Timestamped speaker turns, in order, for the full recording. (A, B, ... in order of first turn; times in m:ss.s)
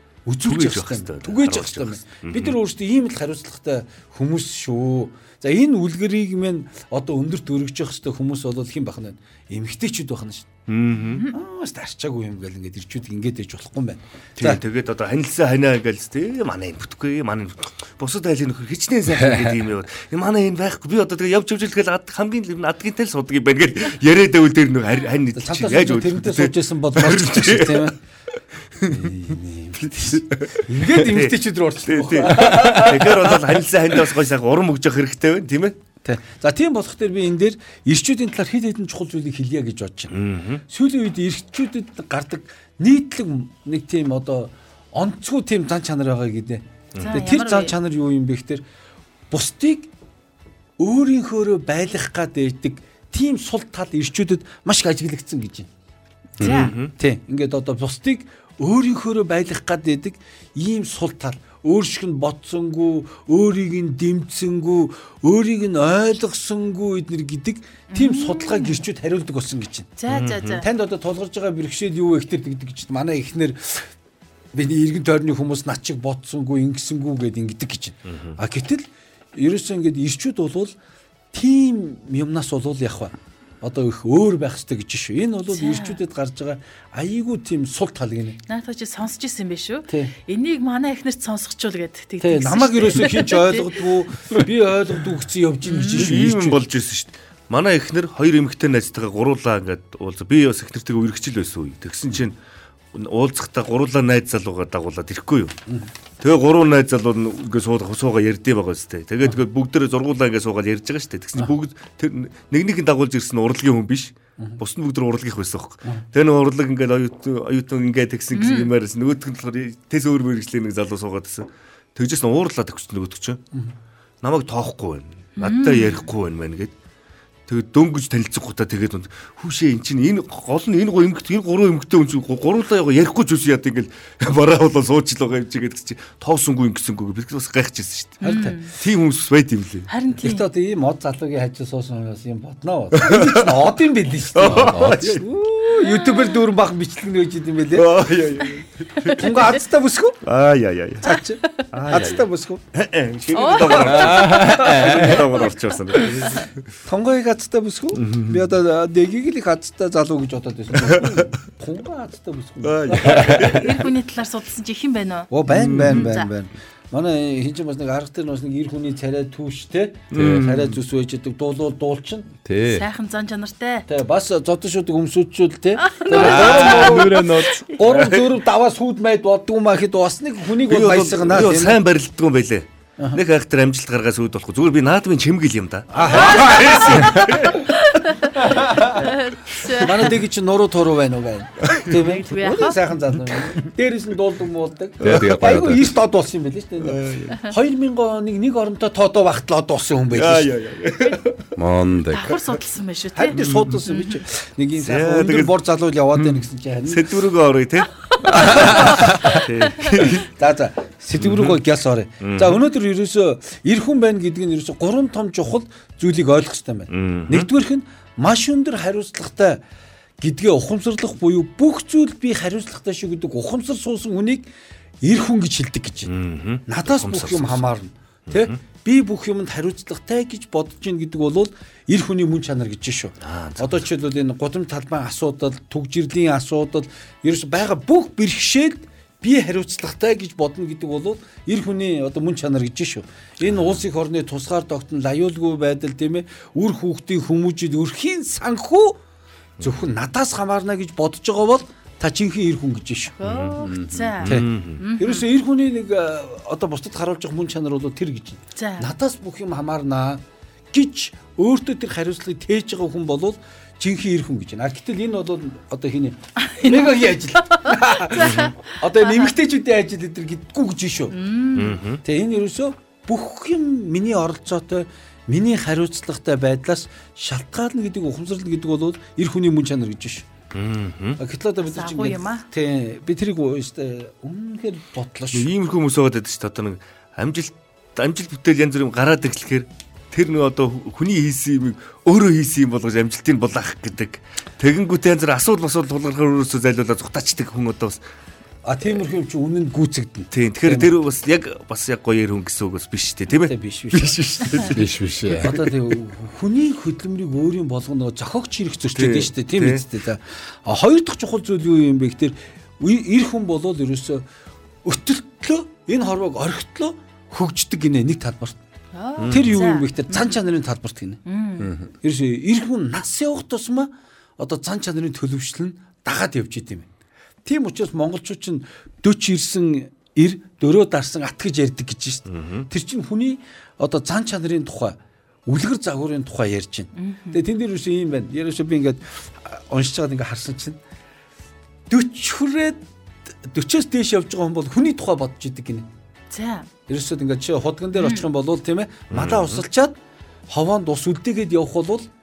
0:00.2-0:10.5 A
0:00.4-0:02.6 B
0:10.7-0:11.2 B
0:11.1-0:11.3 C
0:11.3-0:14.6 A
0:14.4-0:27.9 B
0:19.1-0:19.6 D
0:25.4-0:28.0 A
0:28.8-0:29.1 B
0:28.8-0:33.5 A
0:29.8-0:35.8 B
0:36.0-0:40.1 A
0:40.1-0:40.6 B
0:40.7-0:48.6 A
0:47.0-0:47.7 C
0:49.3-0:49.9 A
0:50.8-0:55.7 A
0:56.4-0:56.7 D
0:56.4-0:56.8 C
0:56.4-0:56.9 B
0:56.8-1:13.9 A
1:07.9-1:08.8 C
1:10.0-1:10.7 C
1:10.1-1:10.6 B
1:14.5-1:20.7 A
1:18.1-1:18.3 B
1:21.3-1:28.4 A
1:25.5-1:26.0 C
1:28.5-1:33.7 C
1:29.9-1:30.1 A
1:32.2-1:36.6 A
1:35.6-1:36.1 C
1:35.8-1:42.4 B
1:42.9-1:45.5 B
1:46.2-2:03.4 B
1:58.3-1:58.7 C
2:04.2-2:06.7 B
2:05.4-2:06.0 C
2:07.5-2:19.9 B
2:18.2-2:18.6 A
2:18.2-2:18.7 C
2:19.9-2:20.4 C
2:20.2-2:27.9 A
2:22.9-2:23.7 B
2:24.3-2:25.2 B
2:24.5-2:25.1 D
2:25.7-2:26.3 C
2:27.7-2:29.2 B
2:29.0-2:30.2 A
2:29.1-2:29.5 C
2:30.2-2:31.0 B
2:31.0-2:32.6 A
2:31.7-2:36.6 B
2:33.3-2:34.5 C
2:33.9-2:35.1 A
2:34.0-2:35.3 D
2:36.8-2:43.3 A
2:37.9-2:38.4 B
2:40.8-2:41.2 B
2:42.6-2:43.8 B
2:43.0-2:46.3 C
2:45.3-2:52.3 A
2:45.5-2:46.1 B
2:50.1-2:50.7 B
2:50.2-2:50.5 D
2:52.4-2:52.9 D
2:52.6-2:53.8 C
2:53.9-3:01.8 A
2:55.8-2:56.4 C
2:56.1-2:58.3 B
2:56.1-2:57.6 D
3:00.7-3:07.6 B
3:05.9-3:07.6 A
3:06.1-3:10.2 C
3:08.3-3:20.5 A
3:11.9-3:12.8 C
3:15.0-3:15.8 D
3:16.8-3:17.4 B
3:20.1-3:21.5 B
3:21.6-3:22.4 D
3:22.1-3:24.2 C
3:23.2-3:27.0 A
3:23.4-3:23.8 B
3:24.8-3:25.5 B
3:26.2-3:30.3 B
3:28.1-3:29.4 C
3:28.3-3:29.0 A
3:30.0-3:39.6 A
3:31.2-3:31.6 B
3:32.2-3:32.6 B
3:36.9-3:37.5 B
3:40.2-3:44.5 A
3:45.0-3:46.1 A
3:46.1-3:47.7 B
3:46.7-4:09.0 A
3:48.3-3:48.5 B
3:53.2-3:53.8 B
4:03.4-4:03.8 B
4:09.6-4:13.2 A
4:13.2-4:15.2 C
4:13.2-4:13.6 B
4:13.6-4:14.2 D
4:14.2-4:14.8 B
4:14.2-4:31.1 A
4:18.6-4:18.9 C
4:26.4-4:29.3 C
4:31.1-4:31.8 C
4:31.5-4:32.0 B
4:32.0-4:40.2 A
4:40.5-4:41.2 B
4:41.2-4:45.5 A
4:41.7-4:42.4 C
4:45.3-4:58.0 B
4:58.6-5:00.9 A
5:00.3-5:05.7 B
5:03.4-5:04.6 A
5:04.7-5:05.5 D
5:05.4-5:14.2 A
5:08.9-5:09.8 B
5:14.8-5:18.6 A
5:18.9-5:20.3 C
5:19.2-5:19.6 B
5:19.3-5:21.2 A
5:21.2-5:21.7 C
5:21.6-5:21.9 D
5:22.0-5:26.9 A
5:27.4-5:40.8 A
5:32.3-5:32.6 B
5:37.0-5:37.4 C
5:41.9-5:45.9 A
5:46.3-5:46.7 C
5:46.9-5:49.9 A
5:48.0-5:48.2 C
5:49.1-5:49.6 B
5:50.5-5:52.1 A